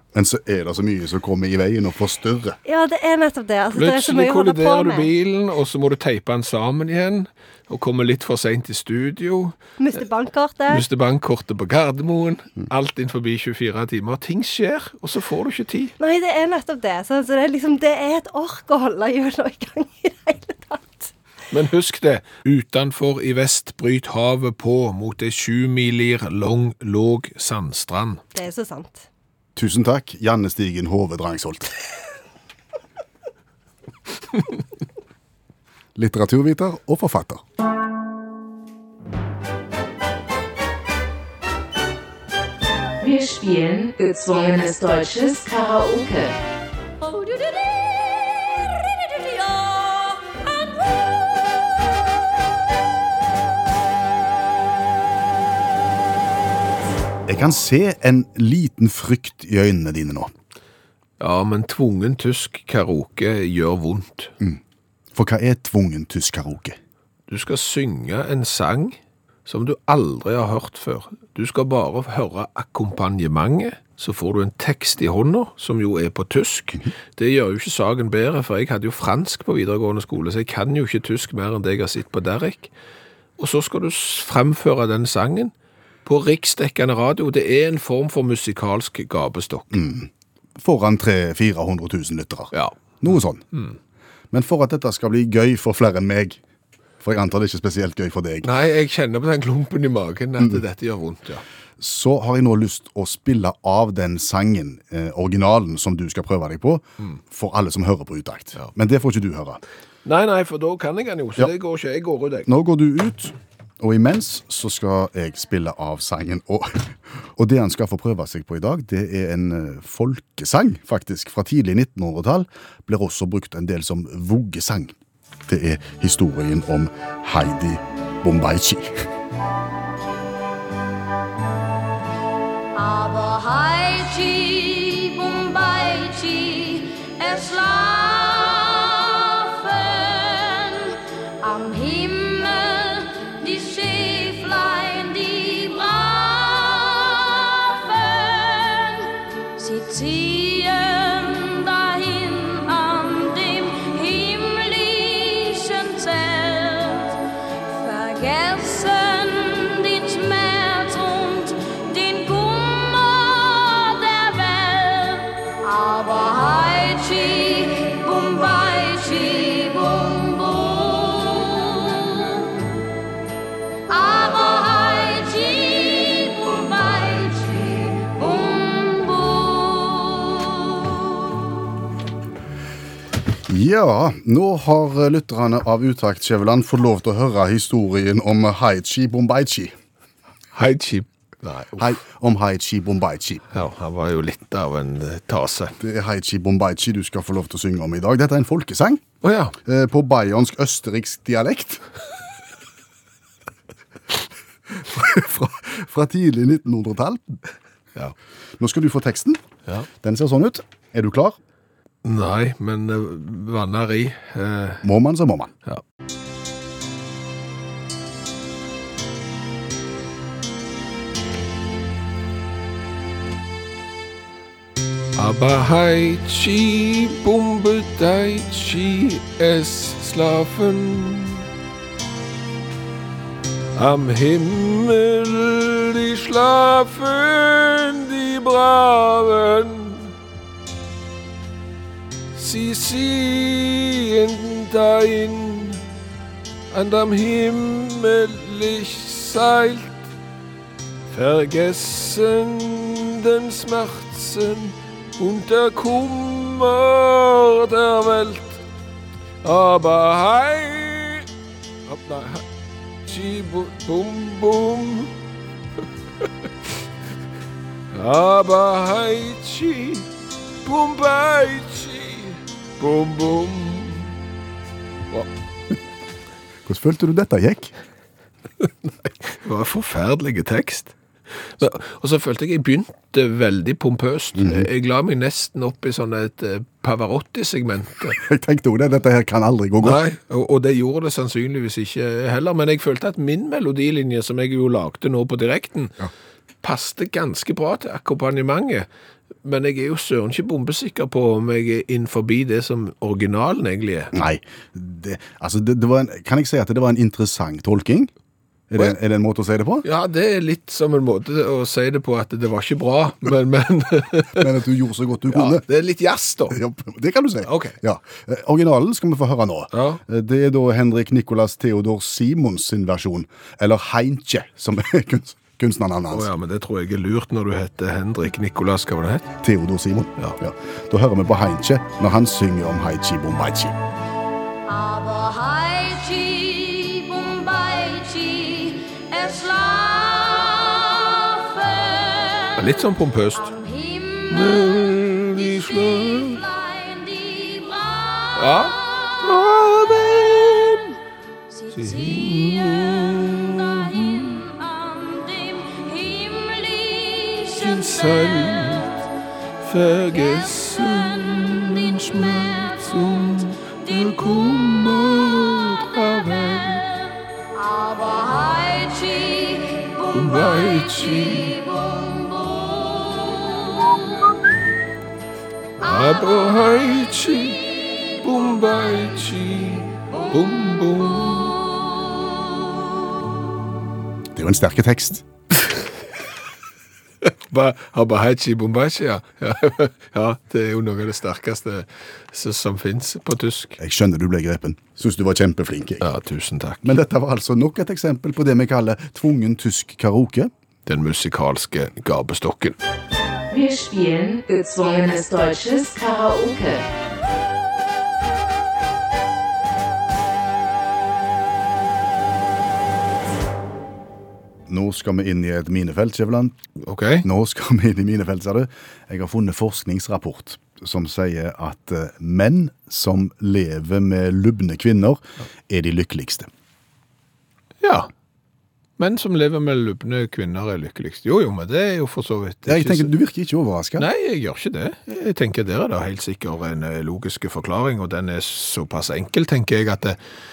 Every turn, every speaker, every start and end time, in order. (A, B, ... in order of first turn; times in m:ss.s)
0:00.1-0:02.6 A
0:02.6-0:05.1 B
0:03.7-0:09.6 C
0:09.8-0:10.8 B
0:10.7-0:15.9 C
0:16.0-0:21.1 B
0:21.5-0:28.2 C
0:28.3-0:29.1 B
0:29.5-0:31.7 A
0:36.0-0:37.4 A
0:43.0-0:46.4 D
0:47.0-0:50.7 E
0:57.3-1:00.3 A
1:01.2-1:04.3 C
1:05.1-1:06.8 A
1:07.3-1:22.7 C
1:23.4-1:25.5 C
1:26.0-1:29.7 C
1:29.7-1:33.4 A
1:32.5-1:32.8 C
1:34.3-1:36.4 A
1:37.0-1:38.5 A
1:38.4-1:41.4 C
1:41.8-1:49.6 A
1:50.0-1:52.5 C
1:52.4-2:04.9 A
2:05.5-2:09.1 A
2:12.7-2:52.5 E
2:53.9-3:01.0 E
3:03.5-3:09.8 A
3:10.5-3:11.9 C
3:11.8-3:13.4 A
3:13.5-3:15.7 C
3:15.8-3:19.0 A
3:19.2-3:19.6 C
3:19.6-3:21.8 A
3:24.8-3:27.4 A
3:28.6-3:29.4 A
3:30.0-3:31.4 A
3:32.0-3:34.8 C
3:34.8-3:35.5 A
3:45.2-3:51.5 C
3:53.7-4:00.1 C
4:02.3-4:05.8 C
4:06.7-4:10.1 C
4:11.1-4:18.6 C
4:19.4-4:21.3 C
4:21.9-4:22.4 C
4:23.0-4:25.1 C
4:27.9-4:30.1 C
4:30.6-4:34.2 C
4:36.6-4:37.7 A
4:39.3-4:48.2 C
4:44.4-4:44.7 A
4:48.1-4:50.0 A
4:49.8-4:56.0 C
4:56.6-4:58.9 C
4:59.4-5:04.1 C
5:04.1-5:08.1 A
5:08.7-5:09.8 A
5:09.8-5:14.5 C
5:14.3-5:15.6 A
5:15.3-5:16.6 C
5:16.5-5:26.3 A
5:17.4-5:17.8 C
5:19.7-5:20.0 C
5:26.1-5:29.3 C
5:29.4-5:33.8 A
5:34.6-5:42.7 E
5:42.6-5:43.6 C
5:43.3-5:49.2 E
5:44.3-5:46.4 C
5:48.4-5:50.9 C
5:51.5-5:52.9 E
5:51.7-5:54.4 C
5:53.8-5:58.8 E
5:57.6-5:58.9 C
5:59.6-6:06.8 C
6:07.5-6:14.0 E
6:10.1-6:11.6 C
6:15.8-6:17.7 C
6:18.2-6:21.6 C
6:24.3-6:25.2 A
6:27.2-6:33.8 C
6:33.8-6:36.0 A
6:36.0-6:37.0 C
6:36.8-6:40.5 A
6:40.8-6:42.8 C
6:43.5-6:46.8 D
6:54.7-6:56.5 A
6:56.8-6:57.2 C
6:57.2-7:06.5 A
7:07.8-7:08.1 C
7:09.0-7:13.1 C
7:12.7-7:14.0 A
7:14.0-7:20.2 C